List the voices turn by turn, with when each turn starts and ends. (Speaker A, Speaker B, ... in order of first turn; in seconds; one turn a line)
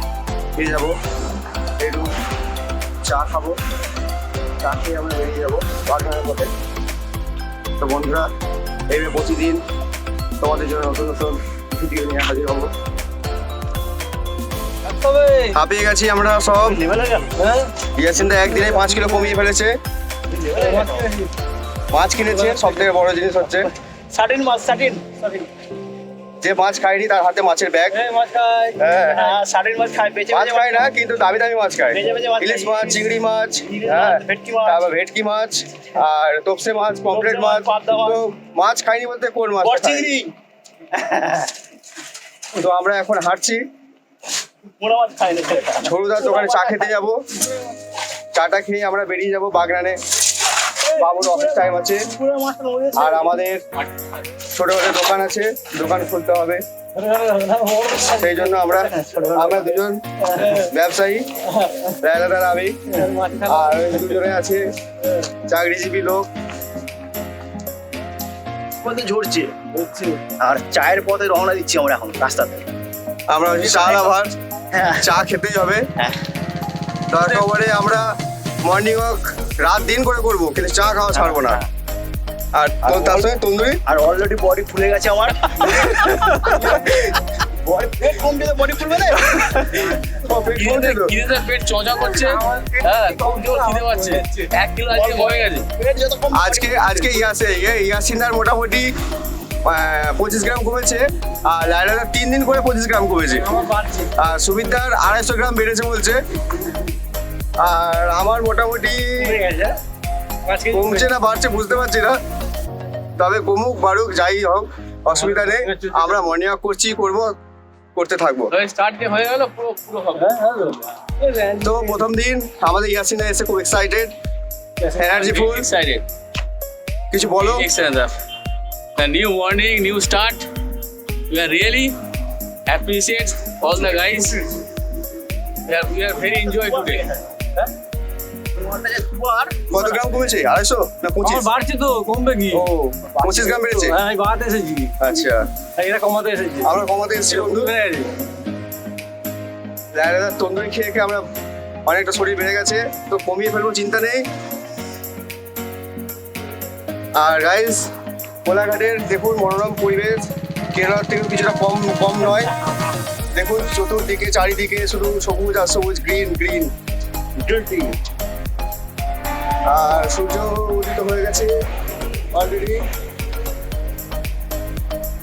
Speaker A: 0.5-0.9
Speaker A: 1.8-2.1
Speaker A: 3.0-3.6
Speaker A: 4.6-6.5
Speaker A: 7.8-8.3
Speaker A: 8.9-9.6
Speaker A: 10.4-12.7
Speaker B: 14.8-15.5
Speaker A: 15.5-16.8
Speaker C: 16.6-17.3
Speaker B: 17.4-17.7
Speaker A: 17.9-19.7
Speaker C: 20.3-21.1
Speaker B: 20.5-21.3
Speaker A: 21.9-23.7
Speaker B: 22.3-22.7
Speaker C: 24.1-25.5
Speaker A: 26.4-28.0
Speaker B: 27.9-28.8
Speaker A: 28.8-29.4
Speaker C: 29.1-30.9
Speaker A: 30.3-40.1
Speaker C: 31.9-33.1
Speaker C: 33.6-34.8
Speaker C: 37.1-38.2
Speaker C: 39.6-40.3
Speaker C: 40.9-41.5
Speaker A: 42.5-43.6
Speaker C: 44.8-47.0
Speaker A: 45.8-47.2
Speaker A: 48.3-50.0
Speaker C: 50.8-53.3
Speaker A: 51.0-52.0
Speaker A: 53.0-53.6
Speaker A: 54.5-56.6
Speaker B: 57.0-58.1
Speaker C: 57.5-60.6
Speaker A: 58.1-60.0
Speaker A: 60.5-61.2
Speaker A: 61.9-62.8
Speaker B: 63.0-64.0
Speaker A: 63.4-64.6
Speaker A: 65.5-66.3
Speaker C: 68.8-69.6
Speaker B: 69.7-70.2
Speaker C: 70.3-72.7
Speaker A: 73.3-74.3
Speaker C: 73.5-74.1
Speaker C: 74.7-75.1
Speaker A: 75.0-75.8
Speaker A: 77.1-78.0
Speaker A: 78.7-81.6
Speaker C: 81.1-81.6
Speaker A: 82.5-83.8
Speaker C: 82.8-83.3
Speaker C: 83.8-89.9
Speaker A: 86.4-86.8
Speaker A: 90.0-91.1
Speaker D: 90.5-95.7
Speaker C: 92.2-93.9
Speaker B: 93.2-94.4
Speaker C: 94.9-97.2
Speaker A: 96.3-98.9
Speaker A: 99.6-103.5
Speaker C: 103.5-104.0
Speaker A: 104.2-106.2
Speaker A: 107.6-109.4
Speaker C: 109.2-109.8
Speaker C: 110.5-110.9
Speaker A: 110.7-112.2
Speaker A: 113.2-117.3
Speaker B: 115.1-116.1
Speaker A: 117.9-118.5
Speaker D: 118.5-120.3
Speaker B: 120.2-121.8
Speaker A: 121.6-124.1
Speaker A: 124.9-125.7
Speaker D: 125.1-126.0
Speaker A: 127.1-127.7
Speaker D: 127.4-128.2
Speaker D: 128.9-130.5
Speaker D: 131.3-132.0
Speaker D: 132.7-134.4
Speaker D: 135.7-137.0
Speaker C: 136.4-137.6
Speaker C: 138.5-140.1
Speaker A: 139.7-141.5
Speaker B: 141.3-142.6
Speaker A: 142.5-144.0
Speaker B: 143.2-144.9
Speaker A: 145.0-145.4
Speaker B: 145.8-146.7
Speaker A: 146.6-147.7
Speaker B: 147.4-148.1
Speaker A: 149.9-151.2
Speaker A: 151.8-154.2
Speaker A: 157.2-157.9
Speaker A: 158.4-162.5
Speaker A: 163.3-166.7
Speaker C: 167.4-167.9
Speaker A: 169.6-171.5
Speaker A: 172.3-172.8